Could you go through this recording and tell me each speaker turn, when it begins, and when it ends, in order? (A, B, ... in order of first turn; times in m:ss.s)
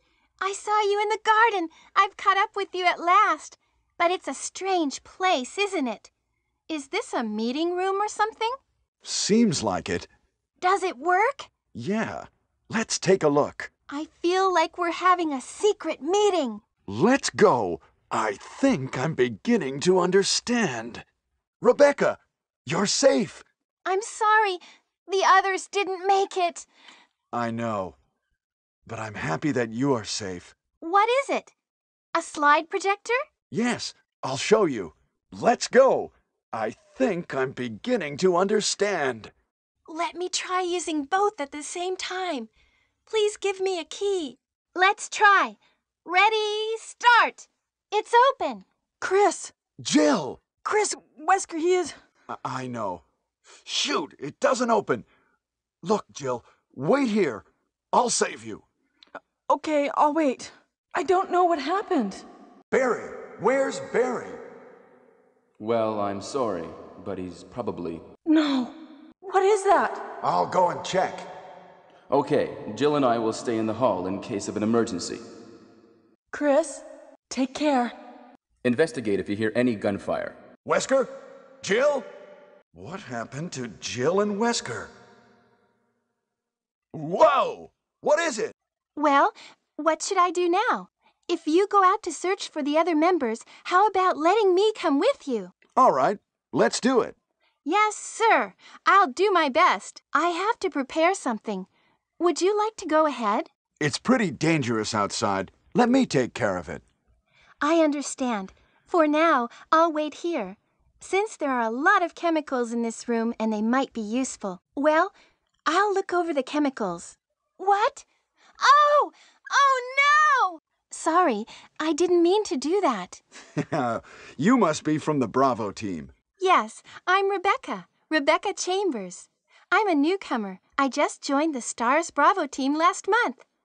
0:00.4-0:06.1 A
0:06.7-0:08.6 A
0:09.0-0:10.1 B
0:10.6-0:11.5 A
0:11.7-0:13.7 B
0:13.9-0:16.6 A
0:16.9-0:21.0 B
0:21.6-0:23.4 B
0:23.8-0:26.7 A
0:27.3-0:28.0 B
0:28.8-0:30.5 B
0:30.8-0:31.5 A
0:32.1-0:33.2 A
0:33.5-0:39.3 B
0:39.9-0:42.5 A
0:43.1-0:48.6 A
0:49.0-0:49.5 C
0:49.8-0:50.4 B
0:50.6-0:51.9 C
0:52.3-0:53.0 B
0:53.6-0:55.1 B
0:55.8-0:58.6 B
0:59.5-1:02.2 C
1:02.7-1:04.4 B
1:05.6-1:08.0 D
1:08.3-1:10.0 C
1:10.2-1:11.3 B
1:12.1-1:15.2 D
1:16.3-1:18.0 C
1:18.6-1:20.4 D
1:20.6-1:21.1 B
1:21.6-1:22.1 B
1:22.7-1:24.9 B
1:26.9-1:28.5 B
1:28.9-1:35.5 A
1:35.8-1:37.2 B
1:37.6-1:41.7 A
1:42.2-1:43.5 A
1:43.8-1:46.8 B
1:47.6-1:55.1 A
1:55.6-1:58.0 A
1:58.6-2:03.2 A
2:03.6-2:06.1 B
2:06.4-2:13.4 A